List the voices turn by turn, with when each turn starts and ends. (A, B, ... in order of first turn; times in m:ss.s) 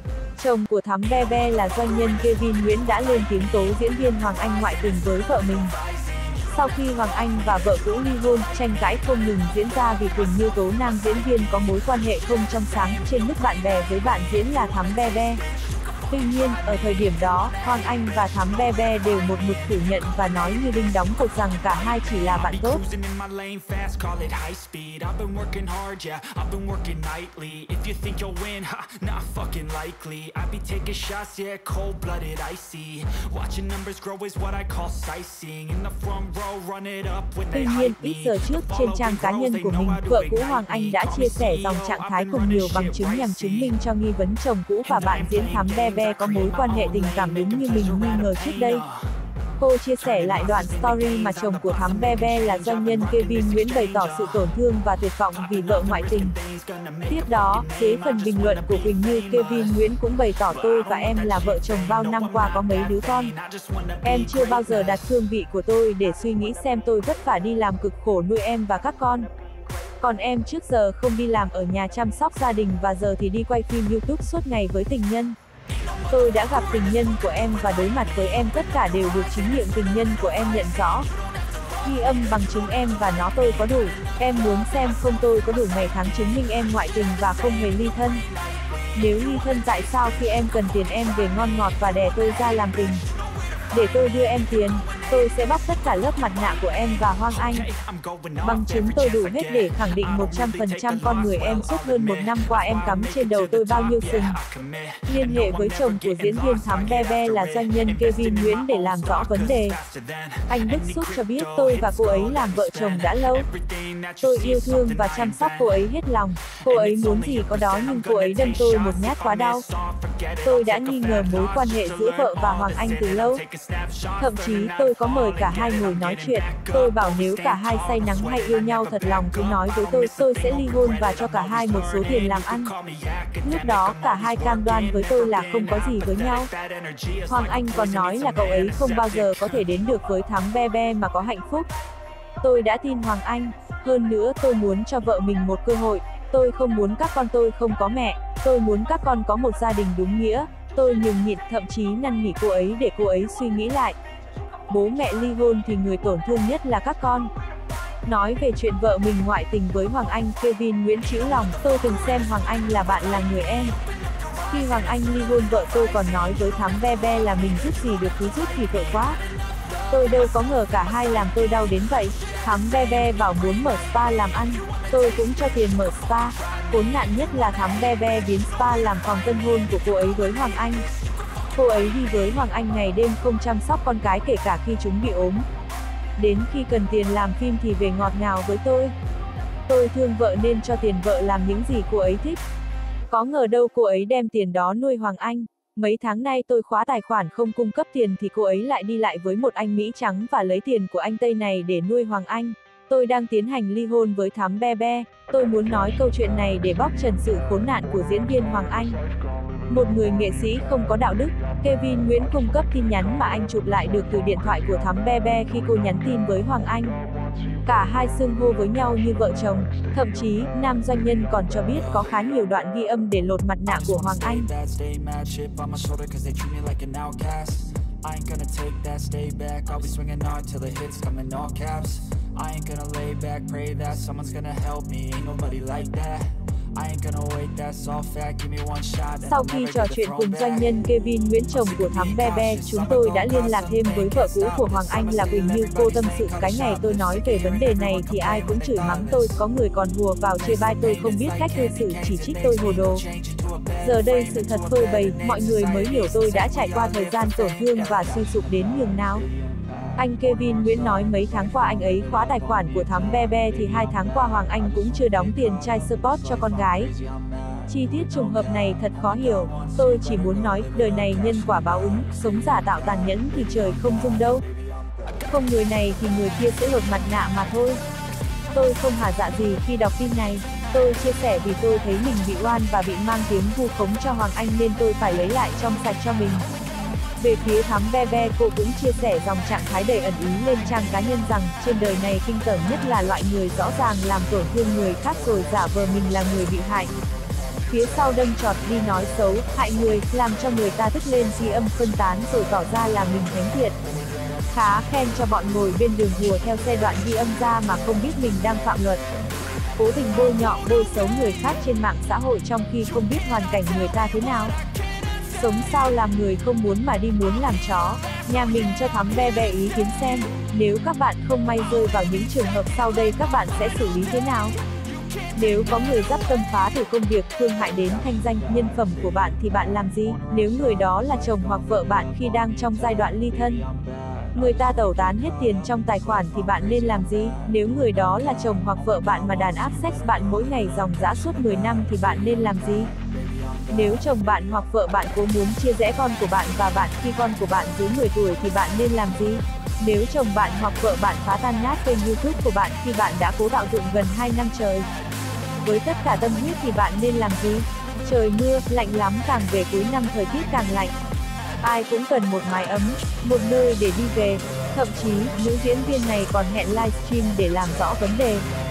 0:00.4-0:05.7 A
0:06.4-0:15.4 A
0:16.1-0:22.8 A
0:22.3-0:43.7 B
0:37.5-0:48.8 A
0:44.8-0:49.1 B
0:49.6-0:56.3 A
0:50.0-0:54.6 B
0:55.3-0:59.9 B
0:57.1-1:03.3 A
1:00.4-1:05.1 B
1:04.0-1:09.3 A
1:10.0-1:15.4 A
1:16.1-1:21.1 A
1:21.8-1:28.2 A
1:28.9-1:33.0 A
1:33.7-1:37.7 A
1:37.4-1:55.9 B
1:38.4-1:44.4 A
1:45.1-1:49.8 A
1:50.5-1:53.5 A
1:54.2-1:59.6 A
1:56.6-2:19.6 B
2:00.4-2:03.4 A
2:04.2-2:12.7 A
2:13.4-2:16.5 A
2:17.3-2:21.7 A
2:22.4-2:34.0 A
2:34.7-2:37.3 A
2:38.0-2:43.7 A
2:44.5-2:49.2 A
2:49.9-3:00.8 A
3:01.5-3:05.4 A
3:06.2-3:08.9 A
3:09.7-3:12.4 A
3:13.1-3:29.0 A
3:29.7-3:36.9 A
3:37.6-3:44.5 A
3:43.7-4:00.8 B
3:59.2-4:13.0 A
4:01.5-4:09.4 B
4:10.4-4:18.4 B
4:13.8-4:19.2 A
4:20.0-4:26.9 A
4:20.4-4:32.2 B
4:27.7-4:34.4 A
4:35.3-4:37.8 A
4:38.5-4:46.4 A
4:47.2-4:56.9 A
4:57.7-5:03.8 A
5:04.5-5:09.0 A
5:09.8-5:14.5 A
5:15.3-5:24.5 A
5:25.3-5:33.6 A
5:30.7-5:32.2 B
5:33.6-5:37.3 B
5:34.3-5:42.9 A
5:39.0-5:41.9 B
5:43.7-5:54.9 A
5:55.6-6:00.9 A
6:01.6-6:08.4 A